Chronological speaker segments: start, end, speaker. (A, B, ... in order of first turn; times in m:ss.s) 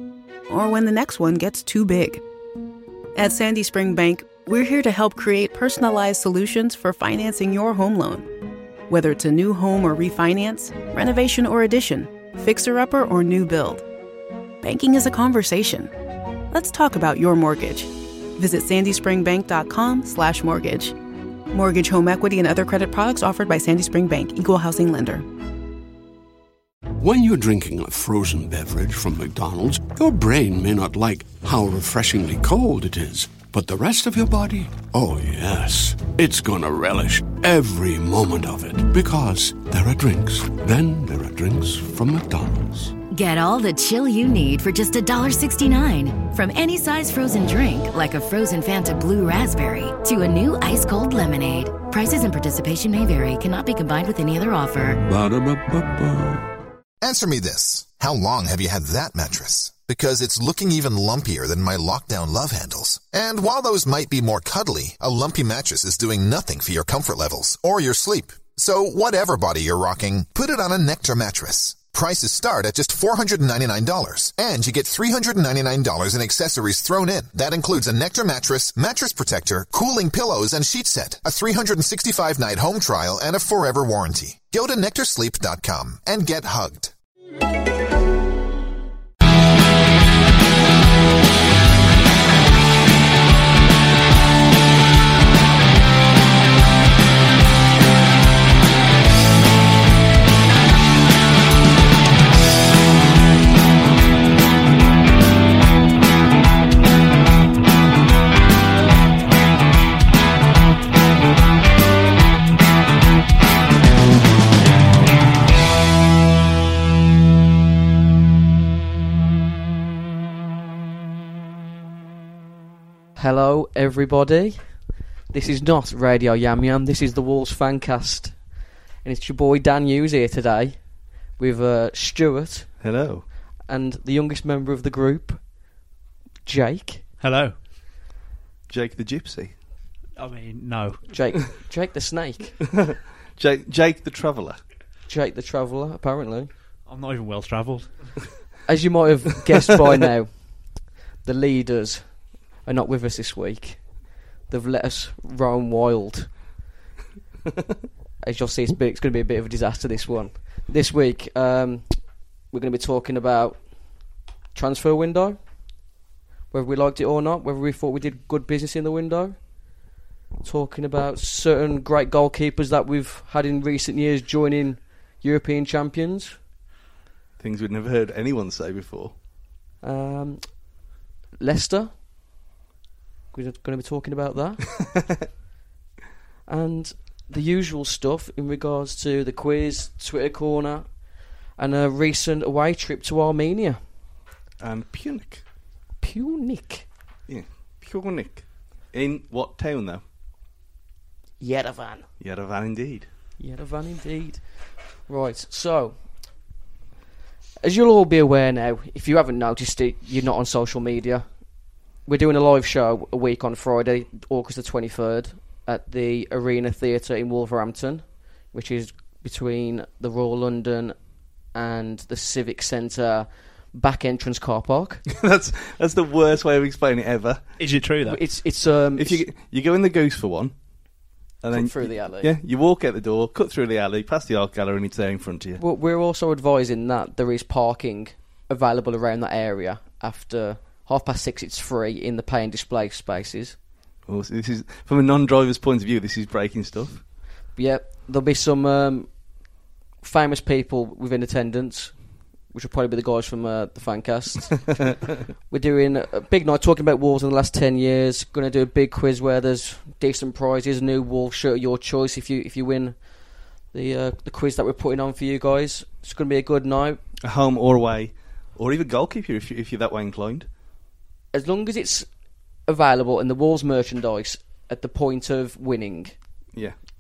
0:00.5-0:02.2 A
0:03.2-0:08.3 A
0:08.9-0:13.8 A
0:14.6-0:15.9 A
0:16.5-0:21.0 A
0:21.5-0:25.2 A
0:27.0-0:43.0 B
0:43.1-0:55.0 C
0:55.0-0:56.4 B
0:57.0-1:26.9 D
2:03.2-2:04.6 E
2:05.3-2:08.4 E
2:09.0-2:10.8 E
2:11.4-2:12.7 E
2:12.8-2:13.3 F
2:13.7-2:15.4 E
2:16.4-2:17.0 E
2:17.2-2:17.6 G
2:18.7-2:19.5 F
2:20.2-2:21.0 G
2:21.1-2:22.6 E
2:22.8-2:24.6 F
2:25.1-2:26.5 E
2:26.9-2:28.1 G
2:28.7-2:30.3 E
2:31.2-2:32.1 E
2:32.6-2:33.9 E
2:34.5-2:36.3 E
2:38.2-2:41.9 E
2:42.5-2:43.6 E
2:44.6-2:45.4 E
2:46.5-2:49.4 E
2:50.4-2:56.4 E
2:57.4-2:59.1 F
2:59.8-3:00.6 E
3:01.4-3:01.9 E
3:03.3-3:04.6 E
3:06.5-3:10.9 E
3:11.6-3:13.8 E
3:14.6-3:15.4 F
3:16.0-3:16.9 E
3:17.3-3:20.0 F
3:21.4-3:22.1 E
3:22.2-3:23.1 F
3:23.4-3:24.4 E
3:25.1-3:26.0 E
3:27.6-3:31.2 E
3:32.1-3:41.0 E
3:41.5-3:45.0 E
3:45.1-3:47.5 F
3:47.6-3:48.2 G
3:48.0-3:49.2 E
3:49.0-3:50.5 F
3:51.4-3:55.6 F
3:51.5-3:52.3 E
3:55.6-4:03.6 E
4:04.1-4:07.0 F
4:07.6-4:09.1 E
4:10.0-4:11.9 E
4:12.5-4:14.9 E
4:15.5-4:23.0 E
4:23.7-4:27.0 E
4:27.2-4:30.5 F
4:31.3-4:32.1 E
4:32.7-4:36.2 E